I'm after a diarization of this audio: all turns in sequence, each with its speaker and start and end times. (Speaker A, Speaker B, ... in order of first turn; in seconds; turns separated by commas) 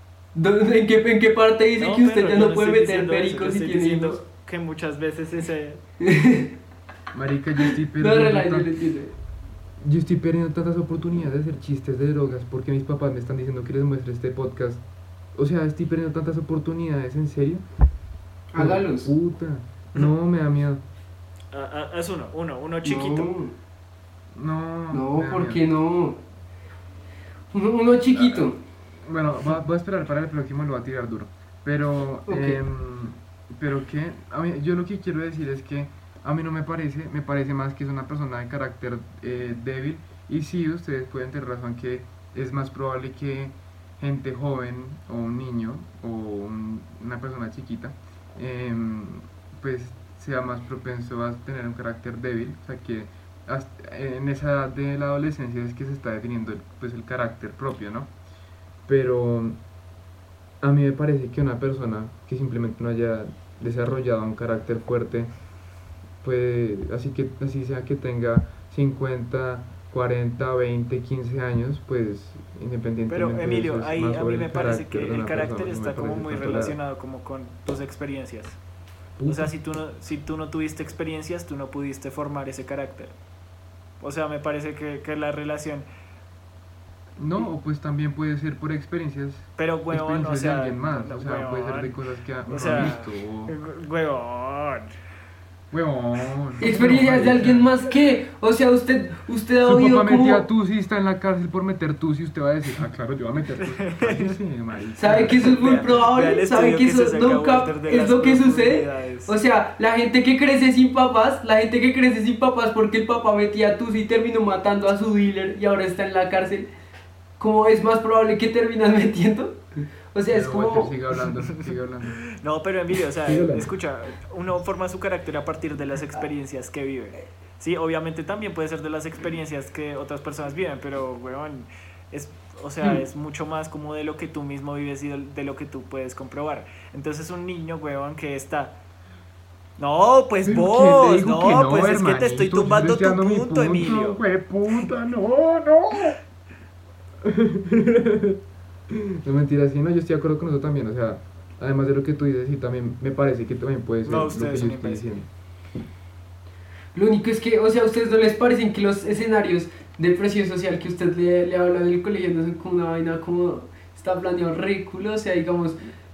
Speaker A: 0.3-4.2, Speaker B: 1.8-5.8, Speaker A: 6.0-6.5, Speaker C: 7.1-8.7, Speaker A: 8.0-9.1, Speaker C: 9.8-14.8, Speaker C: 15.3-17.6, Speaker A: 18.5-19.1, Speaker C: 18.6-20.8, Speaker B: 21.5-23.3, Speaker A: 22.8-23.5, Speaker C: 24.3-25.6, Speaker A: 24.9-26.2, Speaker A: 27.5-28.6, Speaker C: 28.1-28.4, Speaker C: 29.0-58.1, Speaker A: 32.3-32.6, Speaker C: 58.9-59.6, Speaker C: 60.6-65.3, Speaker C: 66.2-76.8, Speaker B: 73.1-78.6, Speaker C: 79.2-79.5, Speaker B: 79.2-83.1, Speaker B: 84.0-85.8, Speaker C: 87.2-93.5, Speaker B: 89.6-94.9, Speaker C: 95.7-97.7, Speaker A: 96.6-100.5, Speaker C: 99.6-105.5, Speaker B: 103.6-104.3, Speaker A: 105.0-116.7, Speaker B: 105.3-109.3, Speaker A: 117.4-119.6, Speaker A: 120.1-121.0, Speaker C: 120.3-122.2, Speaker B: 122.3-138.8, Speaker C: 123.2-123.7, Speaker B: 139.8-144.2, Speaker C: 140.4-146.2, Speaker C: 147.2-155.3, Speaker B: 154.0-155.1, Speaker A: 156.9-165.8